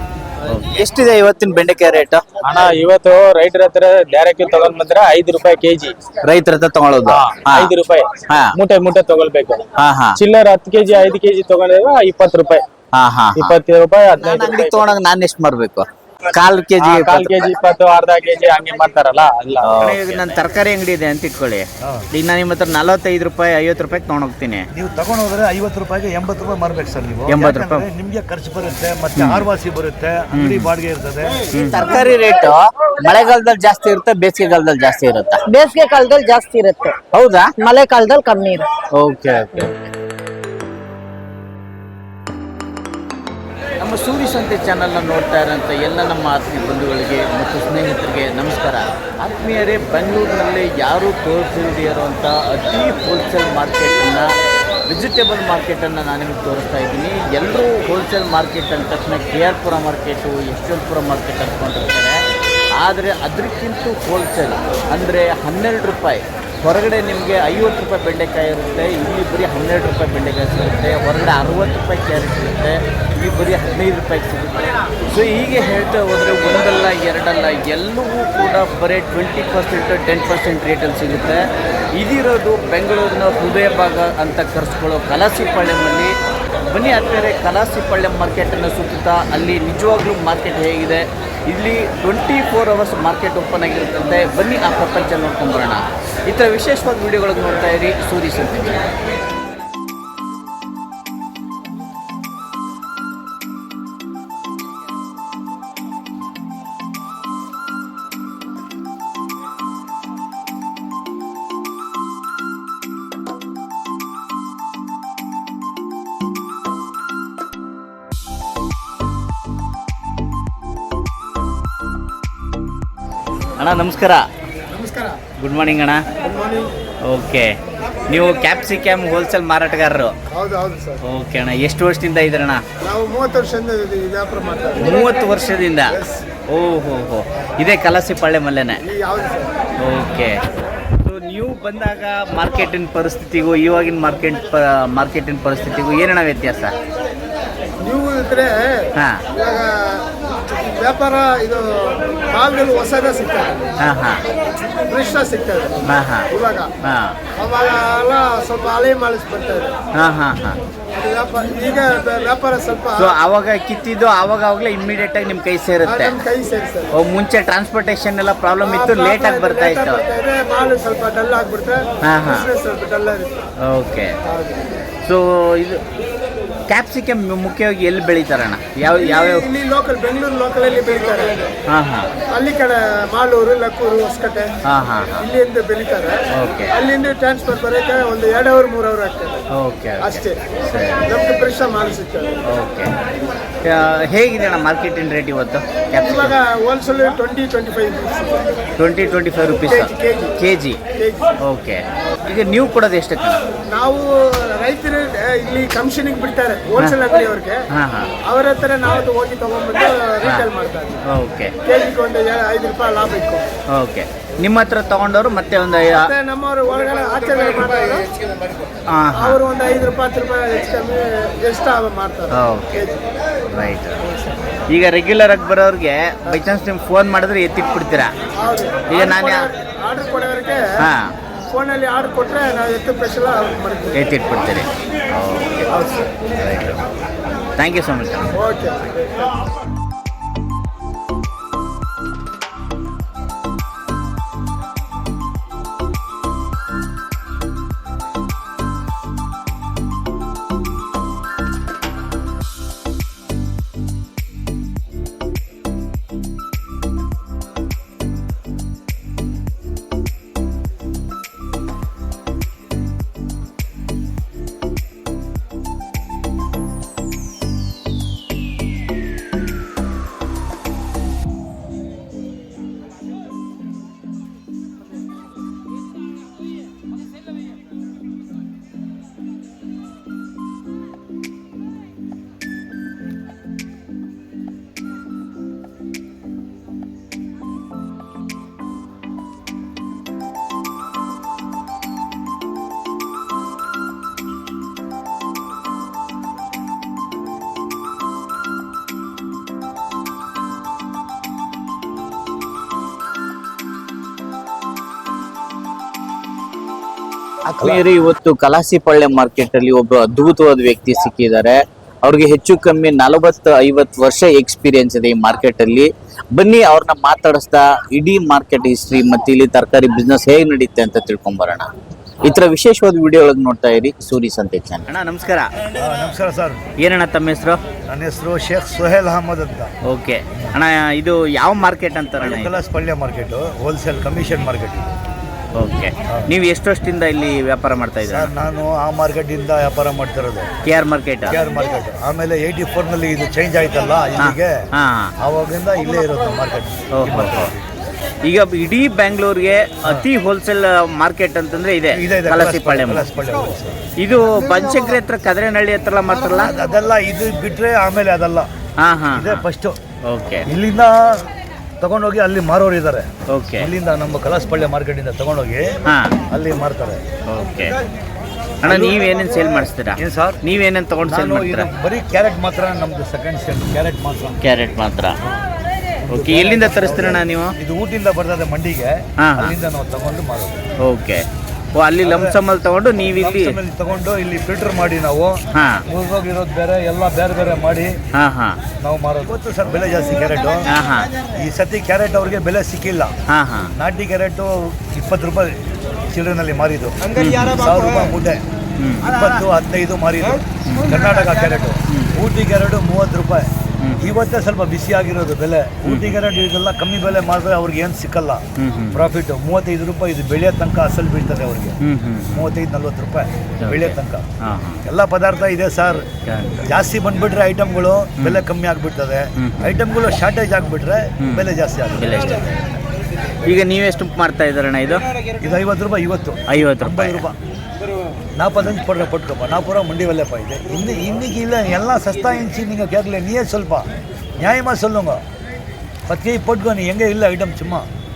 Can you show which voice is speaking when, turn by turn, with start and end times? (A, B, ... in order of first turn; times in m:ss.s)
0:00.5-0:02.2 A
0:02.4-0:05.9 B
0:06.2-0:07.7 A
0:07.1-0:09.6 B
0:08.3-0:08.6 A
0:09.8-0:10.2 A
0:10.2-0:12.6 B
0:12.9-0:13.6 A
0:13.4-0:14.9 B
0:14.2-0:17.4 A
0:16.8-0:20.1 B
0:19.6-0:24.7 A
0:21.8-0:22.0 C
0:24.7-0:31.5 C
0:27.3-0:27.8 A
0:29.2-0:29.5 A
0:30.3-0:30.7 A
0:31.5-0:35.4 A
0:35.5-0:37.0 D
0:37.1-0:37.5 A
0:37.6-0:38.7 D
0:38.9-0:39.9 A
0:43.8-0:54.3 A
0:54.9-1:02.2 A
1:02.8-1:26.2 A
1:26.7-1:38.9 A
2:03.6-2:04.2 A
2:04.7-2:05.2 E
2:05.4-2:06.0 A
2:06.2-2:06.7 E
2:07.1-2:07.6 A
2:08.1-2:10.1 A
2:10.3-2:11.0 E
2:11.0-2:12.6 A
2:12.8-2:15.1 E
2:14.8-2:16.0 A
2:16.5-2:18.8 A
2:18.8-2:19.5 E
2:19.8-2:20.4 A
2:21.0-2:26.7 A
2:27.8-2:33.6 E
2:29.0-2:29.2 A
2:33.8-2:34.2 A
2:34.9-2:35.8 E
2:35.9-2:36.3 A
2:36.3-2:36.7 E
2:36.8-2:37.2 A
2:37.4-2:39.7 E
2:40.0-2:40.6 A
2:41.0-2:43.1 E
2:43.0-2:46.2 A
2:45.8-2:46.9 E
2:46.9-2:50.0 A
2:48.6-2:53.3 E
2:52.0-2:52.5 A
2:53.7-2:54.2 A
2:55.0-2:55.8 A
2:56.7-2:59.5 A
2:58.8-3:01.4 E
3:01.7-3:02.1 A
3:02.3-3:04.5 E
3:04.7-3:05.3 A
3:05.2-3:06.2 E
3:06.3-3:06.8 A
3:06.7-3:09.4 E
3:09.6-3:11.1 A
3:10.0-3:10.4 E
3:11.1-3:12.3 E
3:12.5-3:12.9 A
3:13.6-3:16.4 A
3:16.0-3:18.4 E
3:18.8-3:20.8 A
3:19.7-3:20.3 E
3:21.0-3:21.2 E
3:21.4-3:23.4 A
3:23.7-3:27.6 E
3:27.7-3:28.1 A
3:28.2-3:31.0 E
3:30.2-3:30.5 A
3:31.1-3:31.5 A
3:31.7-3:33.4 E
3:33.8-3:36.1 A
3:35.9-3:38.1 E
3:38.9-3:39.4 A
3:39.1-3:43.0 E
3:42.3-3:42.9 A
3:43.5-3:44.0 A
3:44.7-3:48.1 A
3:48.4-3:50.6 E
3:48.9-3:49.5 A
3:50.8-3:51.1 A
3:51.5-3:54.0 E
3:53.9-3:55.7 A
3:55.7-3:56.1 E
3:56.3-3:56.9 A
3:57.6-3:58.4 A
3:58.3-3:58.8 E
5:07.4-5:21.7 A
5:22.2-5:25.5 A
5:25.8-5:26.6 C
5:26.8-5:27.6 A
5:27.9-5:29.7 C
5:29.9-5:32.6 A
5:32.2-5:34.9 C
5:35.6-5:38.3 A
5:38.0-5:40.5 C
5:40.6-5:41.4 A
5:41.3-5:44.7 C
5:44.2-5:45.1 A
5:45.2-5:47.6 C
5:46.9-5:47.5 A
5:48.2-5:53.1 A
5:51.9-5:53.8 C
5:54.0-5:56.5 A
5:56.4-5:58.5 C
5:58.8-5:59.4 A
5:59.1-5:59.8 C
6:00.1-6:00.4 A
6:00.5-6:01.2 C
6:01.8-6:03.1 C
6:03.3-6:03.7 A
6:03.6-6:05.7 C
6:05.9-6:06.1 A
6:06.3-6:07.0 C
6:07.3-6:07.7 A
6:08.6-6:11.7 A
6:08.6-6:09.1 C
6:10.0-6:10.4 C
6:11.0-6:14.4 C
6:14.4-6:15.2 A
6:16.1-6:20.6 C
6:16.1-6:17.6 A
6:19.2-6:19.6 A
6:20.8-6:23.6 A
6:22.0-6:22.4 C
6:23.2-6:28.0 C
6:25.5-6:25.8 A
6:28.1-6:28.6 A
6:28.8-6:30.6 C
6:30.7-6:31.1 A
6:31.3-6:33.1 C
6:33.3-6:33.7 A
6:33.8-6:35.6 C
6:36.1-6:38.4 C
6:37.2-6:37.6 A
6:38.8-6:39.1 A
6:39.0-6:43.5 C
6:40.6-6:40.9 A
6:43.8-6:44.1 A
6:44.0-6:51.8 C
6:45.8-6:46.2 A
6:48.6-6:49.1 A
6:51.8-6:52.5 A
6:52.3-6:54.2 C
6:53.6-6:54.8 A
6:54.8-6:56.0 C
6:56.2-6:56.6 A
6:56.6-7:02.4 C
6:59.4-6:59.8 A
7:01.2-7:02.8 A
7:03.4-7:05.0 A
7:05.4-7:07.4 C
7:06.5-7:07.2 A
7:08.4-7:13.9 C
7:14.4-7:15.2 C
7:16.1-7:17.9 C